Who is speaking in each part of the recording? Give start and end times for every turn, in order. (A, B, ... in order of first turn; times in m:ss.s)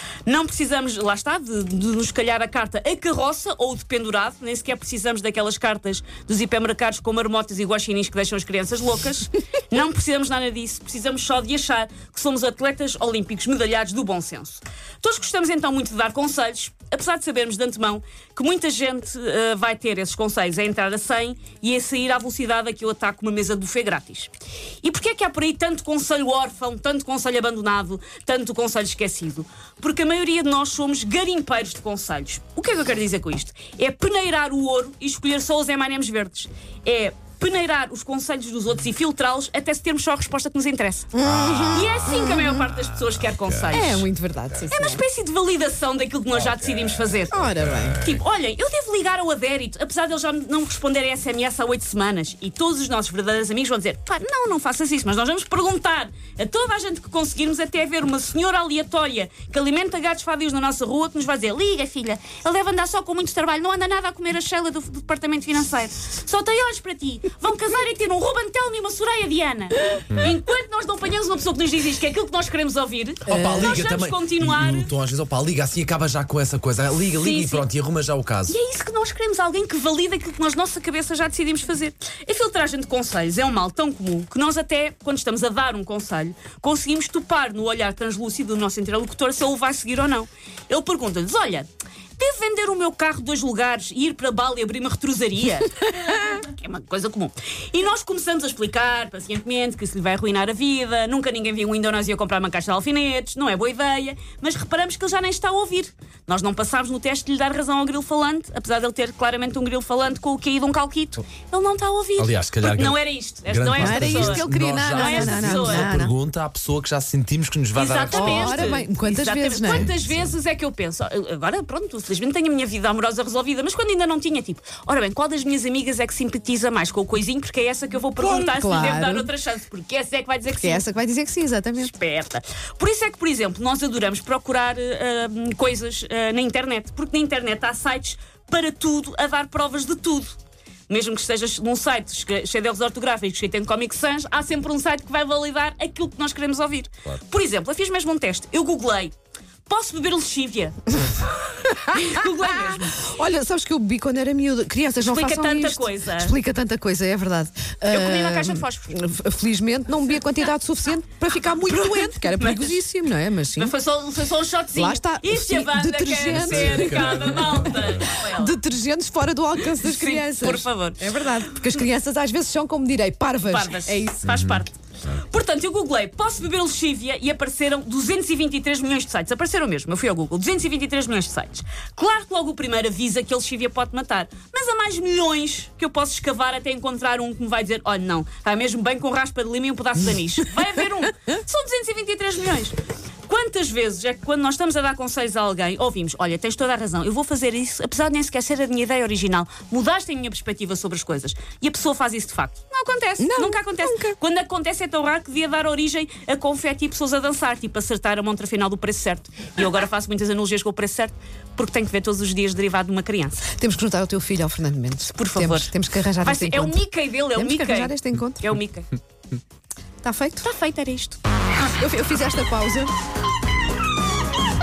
0:00.3-0:24.3 A
0:24.8-0:44.1 A
0:41.1-0:42.6 B
0:41.3-0:41.9 C
0:43.7-0:45.0 B
0:44.7-1:14.9 A
0:46.5-0:48.2 C
0:47.3-0:48.0 B
1:13.3-1:18.6 C
1:13.3-1:13.8 B
1:17.1-1:17.6 A
1:18.5-1:31.7 A
1:32.2-1:56.0 A
1:52.2-1:58.8 C
1:53.8-1:56.2 B
1:57.8-2:10.8 A
1:58.1-1:59.9 B
1:59.7-2:00.3 C
2:08.2-2:09.3 B
2:10.5-2:11.9 B
2:11.8-2:20.4 A
2:20.9-2:29.1 A
2:29.7-2:33.1 A
2:31.9-2:32.2 B
2:33.0-2:43.7 B
2:35.0-2:36.4 A
2:37.9-2:38.9 A
2:41.7-2:42.8 A
2:43.6-2:48.6 A
2:44.7-2:54.3 B
2:46.3-2:48.1 C
2:49.6-2:51.1 A
2:53.4-3:33.5 A
3:23.2-3:24.2 B
3:33.5-3:36.8 B
3:35.0-3:38.9 A
3:37.3-3:38.5 B
3:40.0-3:40.5 B
3:40.4-3:41.2 A
3:41.6-3:42.9 B